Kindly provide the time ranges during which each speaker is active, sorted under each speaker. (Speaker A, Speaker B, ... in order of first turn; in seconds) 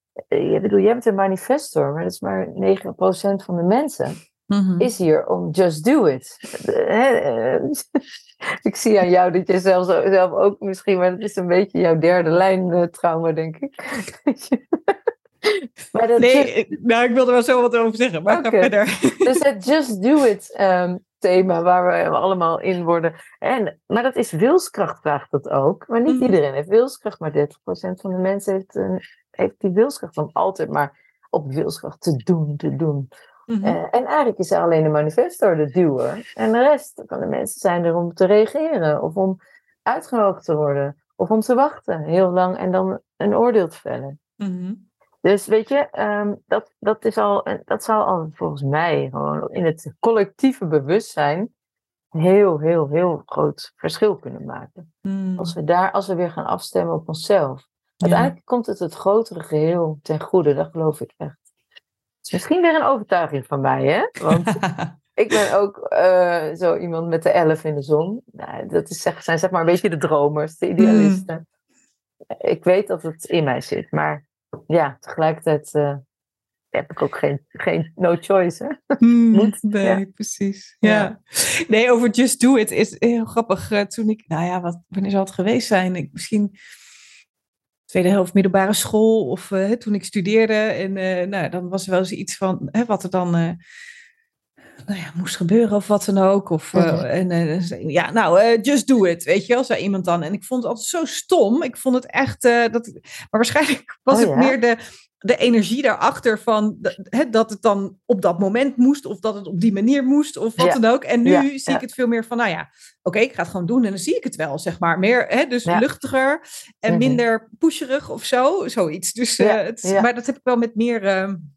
Speaker A: 0.3-4.2, 4.8-14.9, 15.4-16.5, 18.3-18.7, 19.2-33.1, 33.6-44.2, 45.2-51.5, 52.1-54.9, 55.4-61.4, 62.2-64.6, 65.1-71.4, 72.4-76.0, 76.7-78.7, 79.3-80.0, 80.8-81.1, 96.7-97.0, 104.1-104.5, 110.6-111.8, 116.9-117.2, 119.4-120.0
Speaker B: 4.5-4.9, 16.2-19.4, 26.1-26.3, 33.5-33.8, 44.4-44.8, 55.0-55.5, 58.0-58.3, 64.3-64.9, 70.8-71.2, 79.0-86.5, 87.9-93.6, 94.8-121.4